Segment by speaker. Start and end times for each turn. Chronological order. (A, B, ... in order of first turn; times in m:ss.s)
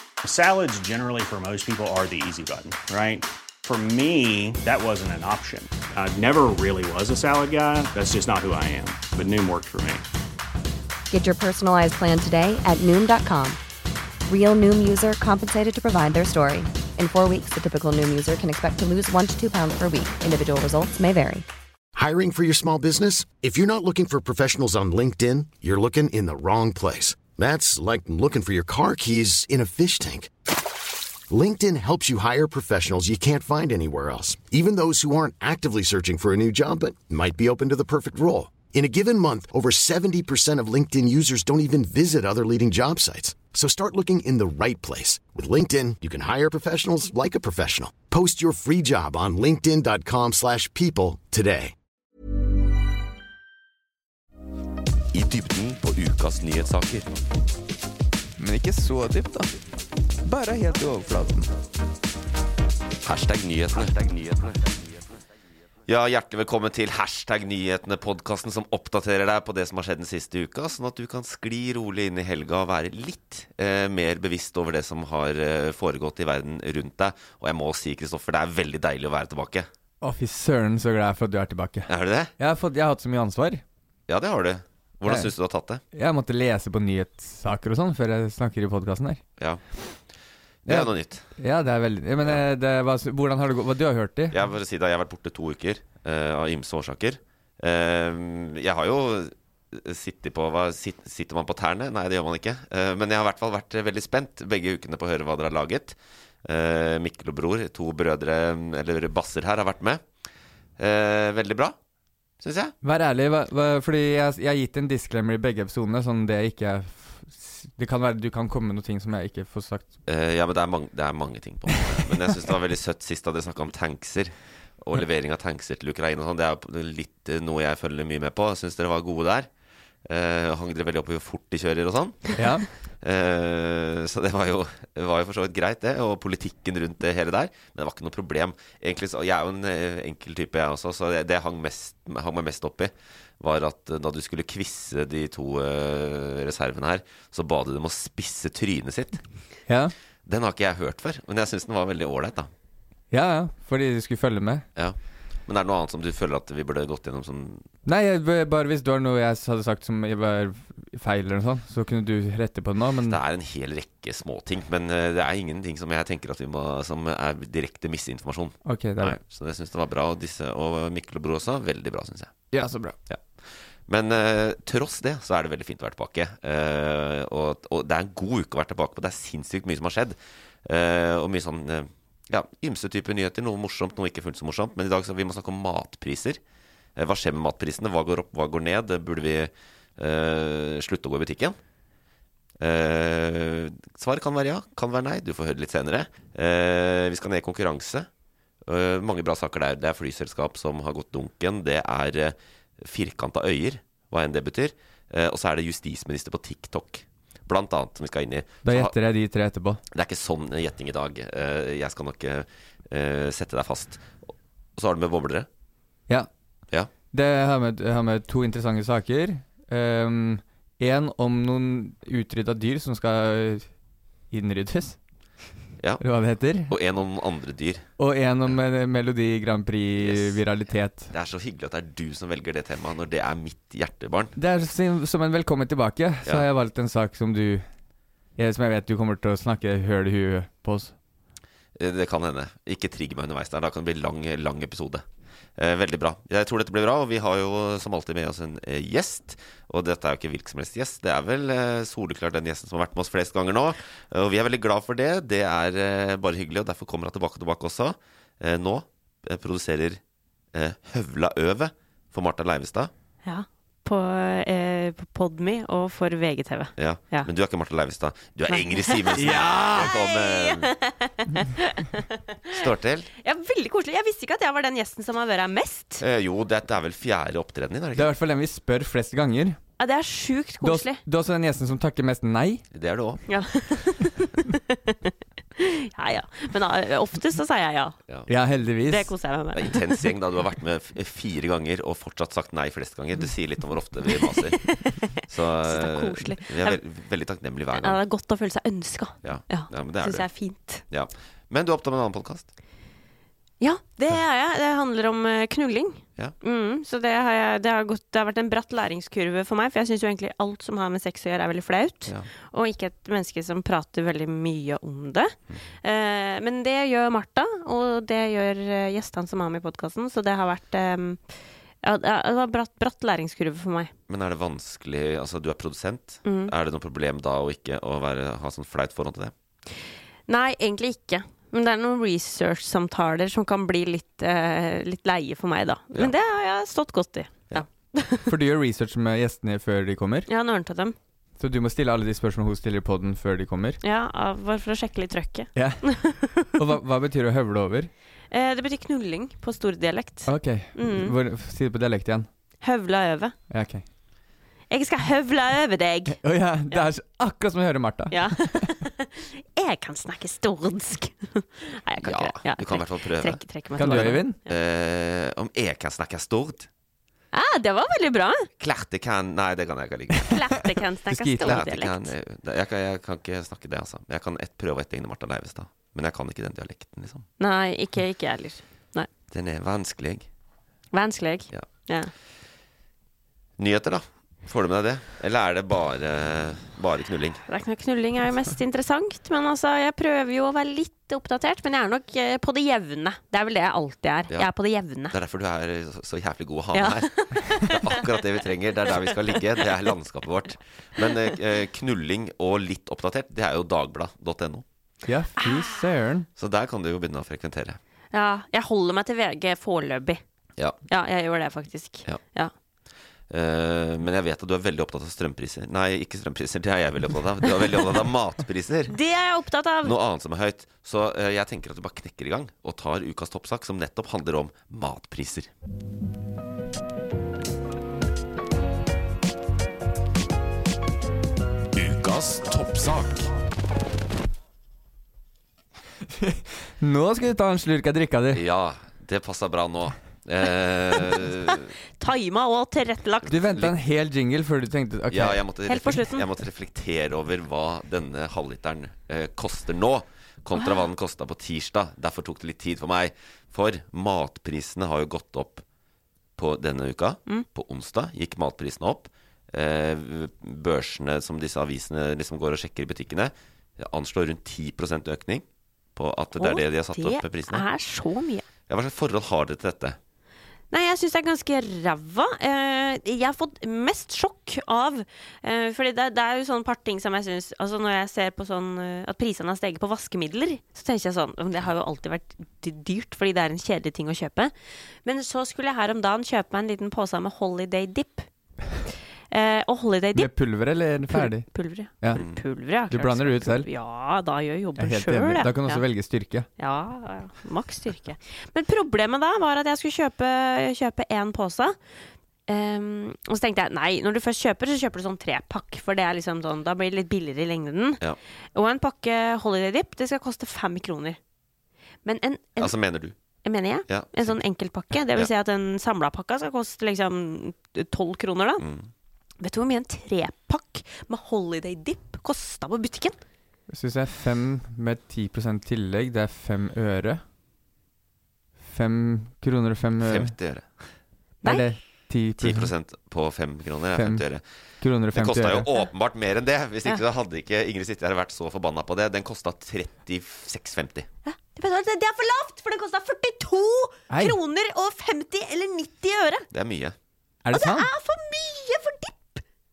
0:00.2-0:10.0 A
0:11.1-0:13.6 B
0:14.3-0:21.4 B
0:21.9-0:30.3 C
0:31.3-0:51.7 C
0:55.1-0:57.1 D
0:58.4-0:59.5 E
1:00.2-1:01.5 E
1:03.0-1:04.7 D
1:05.9-1:19.7 D
1:20.0-1:23.6 E
1:21.9-1:22.3 D
1:24.1-1:25.8 D
1:25.0-1:25.3 E
1:25.9-1:29.2 E
1:30.6-1:31.2 D
1:30.7-1:34.4 E
1:34.3-1:50.0 D
1:50.8-1:51.8 D
1:52.4-1:52.7 D
1:52.8-1:59.9 E
2:00.0-2:09.5 D
2:10.0-2:12.4 D
2:12.4-2:12.7 E
2:13.0-2:29.2 D
2:29.7-2:29.9 E
2:30.2-2:32.5 D
2:33.1-2:34.6 E
2:34.8-2:37.7 D
2:37.8-2:43.2 E
2:43.0-2:52.3 D
2:48.6-2:49.2 E
2:52.5-2:53.0 E
2:53.1-3:06.4 D
3:07.0-3:11.6 D
3:12.6-3:18.1 D
3:18.7-3:28.9 D
3:28.6-3:29.8 E
3:29.9-3:35.5 D
3:37.1-3:43.7 E
3:44.3-3:45.0 E
3:46.0-3:46.7 E
3:46.7-3:47.9 D
3:48.0-3:51.1 E
3:50.0-3:50.4 D
3:51.1-3:54.3 D
3:54.4-3:57.6 E
3:58.4-4:00.9 E
4:01.8-4:05.0 D
4:05.6-4:20.0 D
4:20.5-4:22.9 D
4:23.2-4:27.3 F
4:26.8-4:30.7 D
4:28.5-4:32.7 F
4:29.2-4:29.8 E
4:32.5-4:33.1 D
4:33.2-4:36.0 F
4:36.0-4:38.1 D
4:38.0-4:39.6 E
4:39.8-4:41.0 F
4:40.6-4:42.6 E
4:42.7-4:43.2 D
4:43.3-4:48.0 F
4:48.3-4:49.1 E
4:48.9-4:50.1 F
4:49.5-4:54.6 D
4:54.1-4:56.8 F
4:55.3-4:58.0 D
4:57.8-5:00.8 F
4:59.2-5:00.3 D
5:00.9-5:02.5 D
5:03.6-5:23.9 F
5:24.1-5:29.3 D
5:26.2-5:26.5 F
5:30.3-5:38.3 F
5:38.3-5:40.3 E
5:40.3-5:41.0 F
5:41.4-5:43.8 E
5:43.8-5:46.5 F
5:45.6-5:45.8 E
5:46.4-5:47.9 E
5:48.3-5:51.1 F
5:50.2-5:52.3 E
5:52.6-5:53.3 F
5:53.5-5:53.8 E
5:54.7-5:56.2 F
5:56.2-5:58.6 E
5:58.1-6:04.6 F
6:02.0-6:06.7 D
6:03.8-6:04.4 E
6:07.3-6:08.5 F
6:08.6-6:10.4 D
6:10.3-6:12.1 F
6:11.1-6:11.6 E
6:11.4-6:17.2 D
6:17.4-6:19.1 F
6:19.3-6:20.2 D
6:20.9-6:22.1 F
6:23.6-6:27.4 D
6:27.5-6:35.1 F
6:35.1-6:44.6 D
6:36.7-6:38.1 F
6:38.9-6:39.6 F
6:45.0-6:46.3 E
6:46.4-6:47.8 D
6:48.1-6:50.2 F
6:50.9-6:52.5 F
6:53.3-6:58.9 D
6:58.9-6:59.9 F
6:59.8-7:05.5 D
7:11.7-7:13.3 D
7:16.2-7:18.4 E
7:18.3-7:21.7 D
7:21.0-7:23.3 F
7:23.3-7:25.4 E
7:25.1-7:35.6 D
7:25.7-7:26.2 F
7:30.6-7:30.9 F
7:36.4-7:45.4 D
7:46.0-7:47.6 D
7:46.4-7:48.4 F
7:48.7-7:50.0 D
7:50.7-8:04.5 F
8:05.0-8:08.3 F
8:09.3-8:10.3 F
8:10.1-8:11.4 E
8:11.1-8:15.8 F
8:12.1-8:12.4 D
8:12.9-8:13.7 E
8:14.8-8:16.5 E
8:16.6-8:21.8 F
8:22.5-8:28.0 F
8:28.5-8:31.2 F
8:32.0-8:32.8 F
8:32.6-8:33.1 D
8:33.4-8:38.6 F
8:33.9-8:34.4 D
8:38.6-8:38.9 D
8:39.4-8:43.2 F
8:43.7-8:47.2 E
8:48.6-8:50.3 E
8:50.0-8:50.7 D
8:51.4-8:52.7 E
8:52.4-8:54.4 D
8:53.9-8:54.2 E
8:54.8-8:55.7 E
8:55.1-9:01.1 D
9:01.2-9:06.5 F
9:04.1-9:04.4 E
9:06.5-9:06.9 D
9:07.4-9:07.9 E
9:07.5-9:09.4 F